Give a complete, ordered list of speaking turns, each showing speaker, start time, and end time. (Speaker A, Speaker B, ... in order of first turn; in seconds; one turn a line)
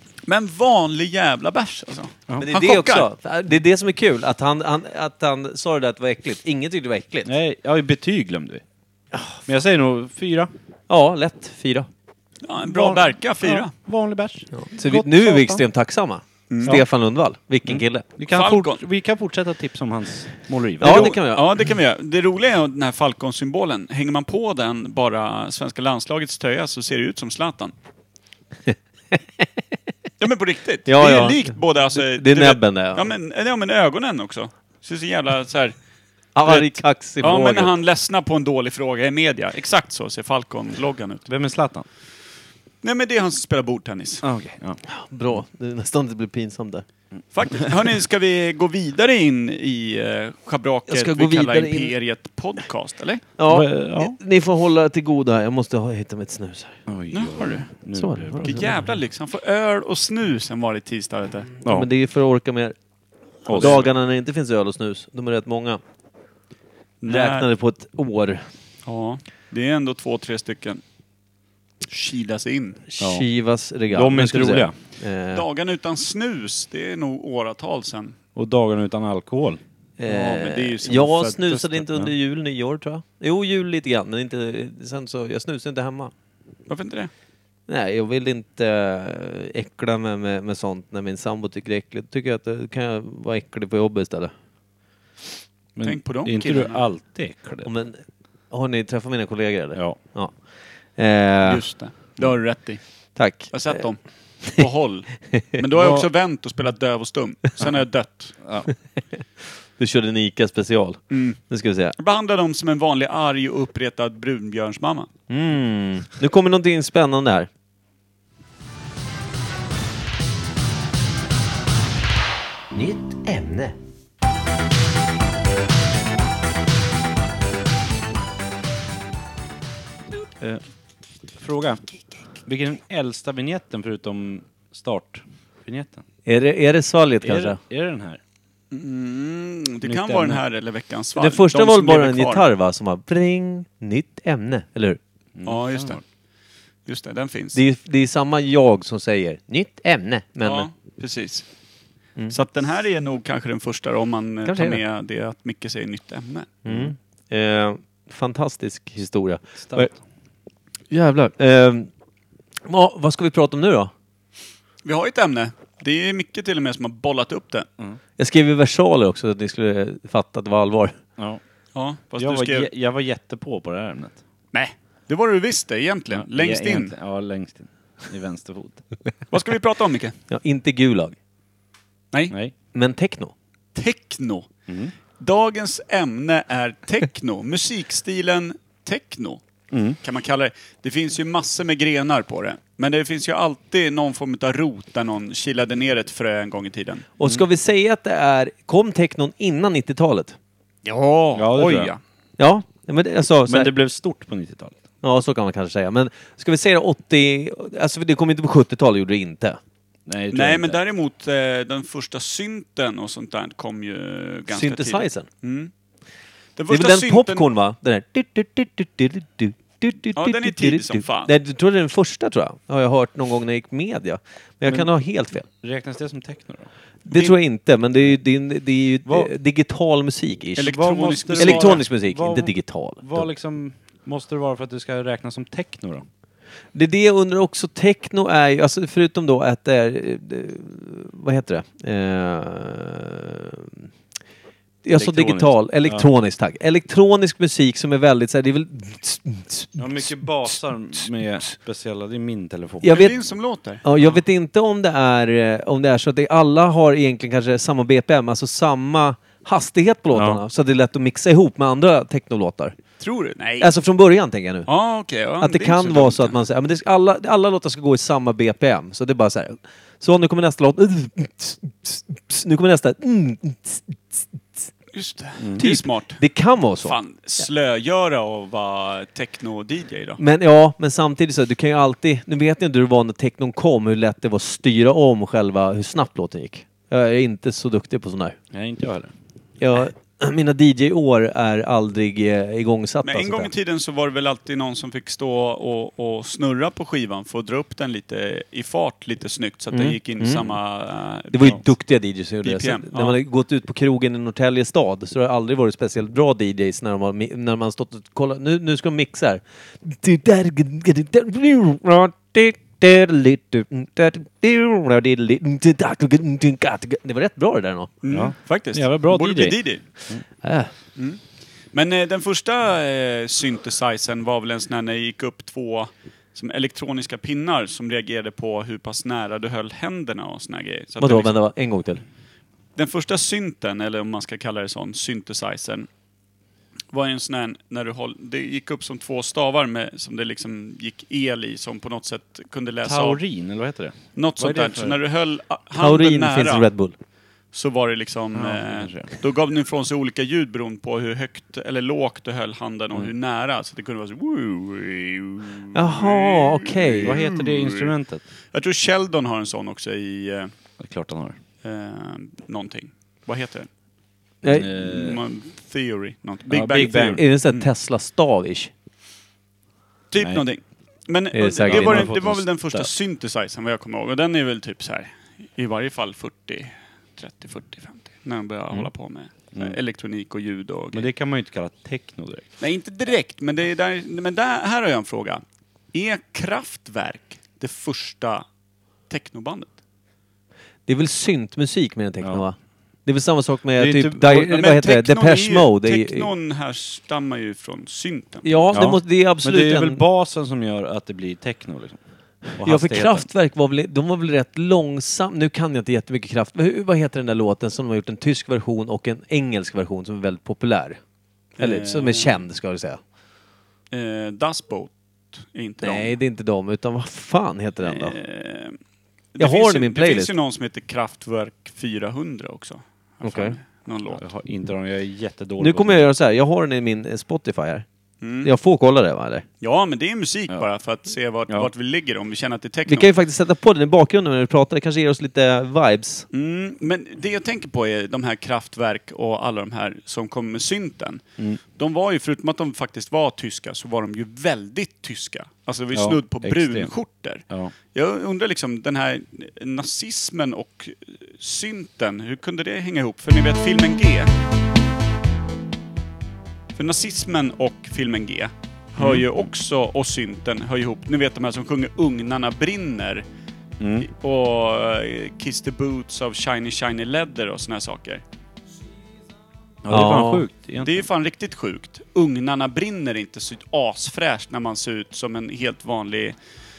Speaker A: 0.3-3.1
Speaker B: 2.4-7.3
Speaker C: 7.2-8.6
Speaker B: 9.1-9.4
Speaker C: 9.4-10.5
Speaker B: 10.9-11.9
Speaker A: 12.4-13.7
Speaker C: 12.6-15.6
Speaker B: 14.5-18.1
Speaker A: 16.5-16.8
Speaker C: 17.7-21.1
Speaker A: 18.3-18.8
Speaker B: 20.8-21.4
Speaker A: 20.8-27.7
Speaker B: 28.7-29.5
Speaker A: 30.2-35.7
Speaker B: 30.9-33.1
Speaker B: 36.4-37.7
Speaker A: 36.4-41.3
Speaker C: 41.3-41.9
Speaker A: 42.8-44.2
Speaker C: 44.2-44.8
Speaker B: 44.9-46.9
Speaker A: 47.3-53.2
Speaker B: 50.9-51.9
Speaker B: 53.4-56.8
Speaker C: 53.5-54.1
Speaker C: 56.9-58.6
Speaker A: 57.1-57.7
Speaker B: 57.9-58.7
Speaker A: 58.4-61.5
Speaker B: 61.6-62.7
Speaker C: 63.5-63.8
Speaker B: 63.5-65.8
Speaker A: 63.6-63.9
Speaker A: 67.0-67.5
Speaker B: 67.1-68.5
Speaker A: 68.9-70.8
Speaker A: 71.8-72.8
Speaker B: 72.9-75.5
Speaker C: 73.0-73.2
Speaker C: 73.9-74.7
Speaker A: 75.3-78.2
Speaker C: 78.3-79.6
Speaker B: 80.0-86.1
Speaker A: 80.1-81.8
Speaker A: 86.7-87.1
Speaker B: 87.7-94.3
Speaker C: 95.7-97.7
Speaker A: 95.8-96.8
Speaker B: 97.6-100.3
Speaker B: 101.0-101.6
Speaker A: 101.4-102.8
Speaker B: 103.2-103.8
Speaker A: 103.3-108.4
Speaker B: 105.3-105.6
Speaker C: 105.8-106.1
Speaker C: 108.4-108.7
Speaker B: 109.8-111.9
Speaker A: 111.1-111.4
Speaker A: 112.0-115.1
Speaker B: 115.3-117.5
Speaker B: 122.7-123.8
Speaker C: 131.4-131.8
Speaker C: 132.4-136.0
Speaker B: 136.2-137.6
Speaker C: 137.2-138.2
Speaker A: 138.7-142.4
Speaker C: 139.8-140.4
Speaker B: 141.2-145.0
Speaker C: 145.3-146.0
Speaker A: 145.4-146.0
Speaker A: 146.9-147.6
Speaker B: 147.5-150.7
Speaker A: 150.4-151.4
Speaker A: 152.3-156.5
Speaker B: 154.4-154.8
Speaker B: 156.7-159.9
Speaker C: 159.6-160.0
Speaker B: 160.9-161.9
Speaker B: 162.7-163.9
Speaker A: 164.8-167.7
Speaker B: 168.2-171.0
Speaker C: 171.2-171.4
Speaker A: 171.7-172.7
Speaker C: 172.2-174.2
Speaker A: 174.5-176.9
Speaker C: 176.1-178.8
Speaker A: 179.3-180.2
Speaker B: 180.3-181.2
Speaker B: 182.7-183.3
Speaker A: 183.7-184.5
Speaker C: 184.7-184.9
Speaker A: 185.2-189.4
Speaker C: 189.7-190.0
Speaker A: 190.0-197.1
Speaker B: 197.2-200.4
Speaker A: 200.8-202.0
Speaker C: 201.3-201.9
Speaker B: 202.4-203.7
Speaker C: 203.4-204.8
Speaker B: 205.0-209.6
Speaker C: 210.1-210.8
Speaker A: 210.3-215.7
Speaker B: 214.5-215.3
Speaker A: 216.6-217.5
Speaker B: 216.7-225.5
Speaker A: 220.2-221.3
Speaker C: 225.5-226.7
Speaker A: 227.1-227.4
Speaker B: 227.1-230.8
Speaker C: 229.1-229.3
Speaker A: 230.6-231.8
Speaker C: 230.7-236.1
Speaker B: 231.3-233.3
Speaker B: 236.7-243.9
Speaker B: 244.8-250.2
Speaker C: 244.9-246.1
Speaker C: 249.8-253.0
Speaker B: 252.8-253.1
Speaker A: 252.9-254.1
Speaker B: 253.8-262.8
Speaker C: 260.1-260.4
Speaker A: 263.0-263.7
Speaker B: 263.6-264.7
Speaker A: 264.7-266.4
Speaker B: 265.4-274.7
Speaker A: 274.9-276.2
Speaker C: 275.4-275.7
Speaker B: 275.6-277.0
Speaker A: 276.8-280.2
Speaker B: 280.2-288.4
Speaker C: 288.5-289.1
Speaker B: 289.6-293.5
Speaker A: 293.1-301.6
Speaker B: 299.7-300.5
Speaker B: 301.3-317.9
Speaker A: 302.4-303.2
Speaker A: 318.0-319.9
Speaker C: 318.1-320.2
Speaker B: 320.4-320.7
Speaker A: 321.7-331.3
Speaker B: 331.0-332.0
Speaker A: 332.8-335.9
Speaker A: 336.9-343.2
Speaker C: 342.8-345.0
Speaker A: 344.1-346.7
Speaker B: 345.8-346.9
Speaker A: 347.5-357.9
Speaker C: 348.3-349.1
Speaker B: 355.7-357.1
Speaker C: 357.0-358.2
Speaker A: 358.5-360.5
Speaker C: 360.8-361.4
Speaker A: 361.6-363.7
Speaker B: 364.4-364.7
Speaker C: 364.4-365.2
Speaker A: 364.7-367.7
Speaker C: 366.5-367.2
Speaker B: 366.8-368.7
Speaker A: 370.1-381.1
Speaker C: 370.2-370.4
Speaker B: 371.3-372.1
Speaker C: 371.6-372.9
Speaker C: 380.9-382.4
Speaker A: 382.6-388.4
Speaker A: 389.1-389.7
Speaker B: 390.9-396.3
Speaker C: 393.8-394.4
Speaker A: 394.3-398.6
Speaker B: 398.4-400.0
Speaker C: 398.7-402.0
Speaker C: 402.6-403.3
Speaker B: 402.6-411.0
Speaker A: 411.6-412.4
Speaker B: 411.6-413.0
Speaker A: 413.9-416.2
Speaker B: 415.8-418.1
Speaker A: 417.8-418.8
Speaker A: 419.4-424.2
Speaker B: 419.4-420.3
Speaker B: 423.2-423.6
Speaker C: 424.1-426.1
Speaker B: 425.6-427.9
Speaker A: 428.2-428.5
Speaker B: 428.4-429.4
Speaker A: 429.6-433.1
Speaker B: 432.9-436.2
Speaker A: 436.3-441.2
Speaker A: 441.8-454.3
Speaker C: 445.9-446.9
Speaker A: 456.8-463.2
Speaker C: 459.0-459.4
Speaker C: 463.8-464.1
Speaker A: 464.0-468.2
Speaker C: 469.8-471.1
Speaker B: 469.9-470.4
Speaker A: 470.8-476.4